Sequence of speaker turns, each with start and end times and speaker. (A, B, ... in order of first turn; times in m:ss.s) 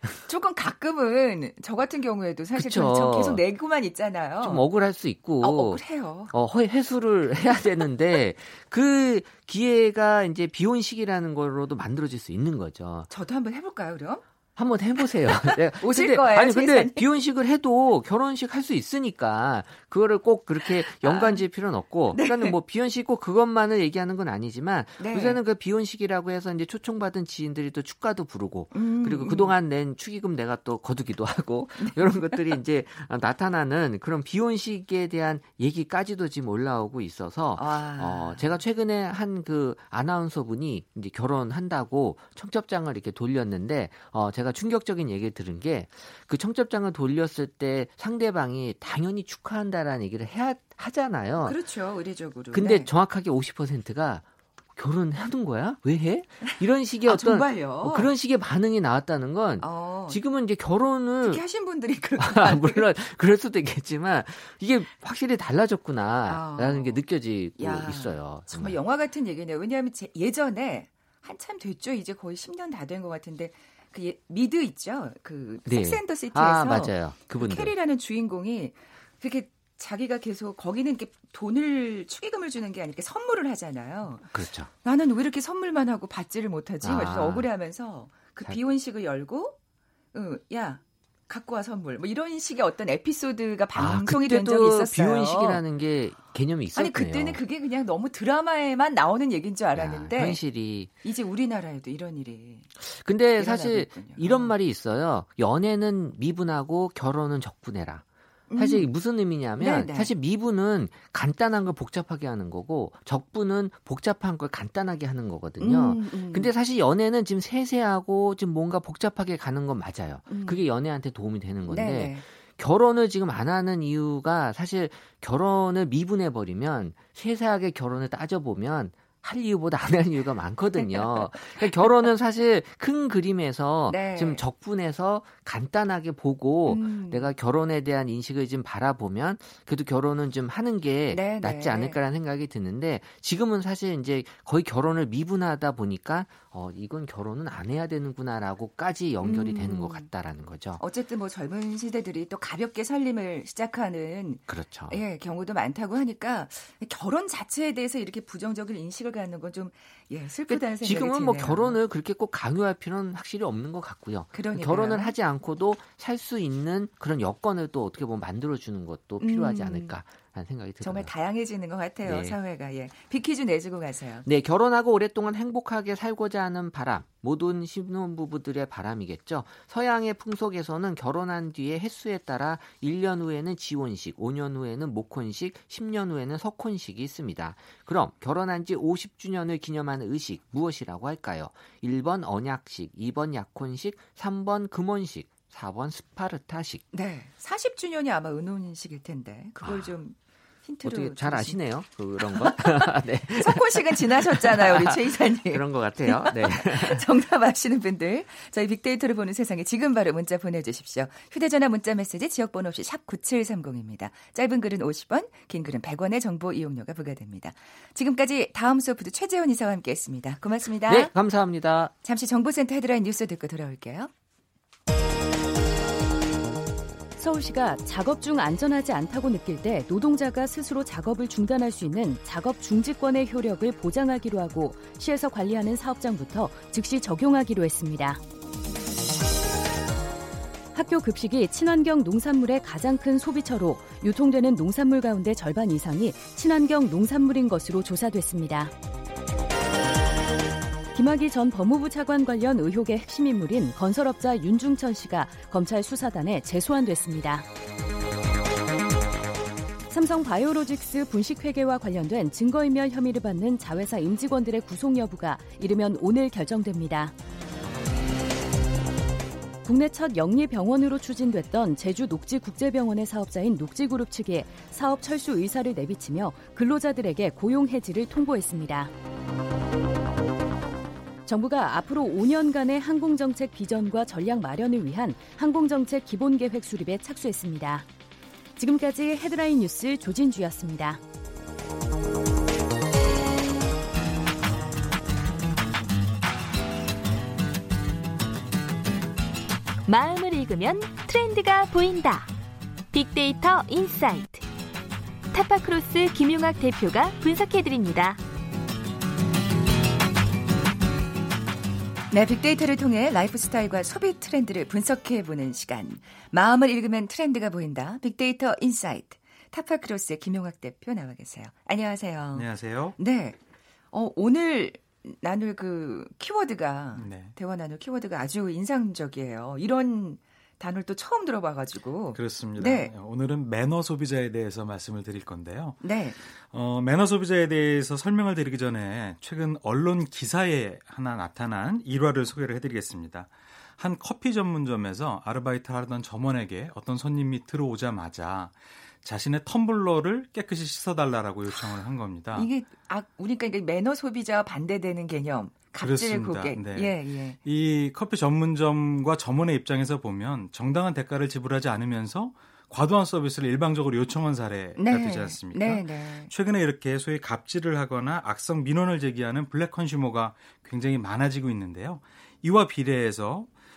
0:00.2-0:04.6 A
0:02.6-0:03.4 B
0:04.4-0:13.1 B
0:05.4-0:06.3 A
0:13.1-0:14.2 A
0:14.6-0:51.6 B
0:15.2-0:17.1 A
0:20.8-0:21.4 A
0:22.1-0:22.5 A
0:25.0-0:25.4 A
0:28.7-0:29.5 A
0:31.8-0:32.5 A
0:37.6-0:38.6 A
0:51.4-0:52.9 A
0:52.5-1:01.4 B
0:56.4-0:58.1 A
0:59.6-1:00.2 A
1:01.2-1:02.9 A
1:02.2-1:08.8 B
1:06.2-1:07.0 A
1:07.6-1:29.6 A
1:15.6-1:17.7 B
1:24.3-1:24.7 B
1:26.8-1:27.5 B
1:30.1-1:35.6 A
1:33.8-1:37.4 B
1:36.7-1:40.4 A
1:39.7-1:40.9 B
1:41.0-1:42.7 A
1:42.8-1:48.0 B
1:43.4-1:44.5 A
1:48.5-1:48.9 A
1:48.6-2:30.8 B
1:49.6-1:50.1 A
1:55.6-1:56.5 A
2:00.3-2:00.6 A
2:01.7-2:02.2 A
2:10.8-2:12.0 A
2:13.9-2:14.4 A
2:16.6-2:17.3 A
2:21.1-2:22.0 A
2:29.2-2:30.1 A
2:30.8-2:41.8 A
2:34.5-2:35.0 B
2:40.5-2:51.1 B
2:44.3-2:45.1 A
2:49.2-2:49.9 A
2:50.8-2:54.2 A
2:52.0-2:52.4 B
2:54.2-3:16.8 B
3:16.9-3:21.6 A
3:19.6-3:19.9 B
3:20.8-3:27.1 B
3:22.2-3:41.1 A
3:40.8-3:41.9 B
3:42.0-3:44.1 A
3:47.2-3:58.2 C
4:00.7-4:08.7 C
4:10.9-4:17.4 C
4:19.9-4:27.1 C
4:29.6-4:38.9 C
4:41.2-4:47.8 C
4:48.6-4:51.0 C
4:59.8-5:02.3 D
5:02.9-5:04.4 D
5:05.3-5:08.2 D
5:12.1-5:23.4 A
5:22.3-5:23.0 E
5:23.9-5:32.9 A
5:27.0-5:27.3 E
5:32.1-5:52.5 E
5:35.8-5:36.2 A
5:52.3-5:57.4 A
5:55.8-6:13.5 E
6:04.8-6:06.3 A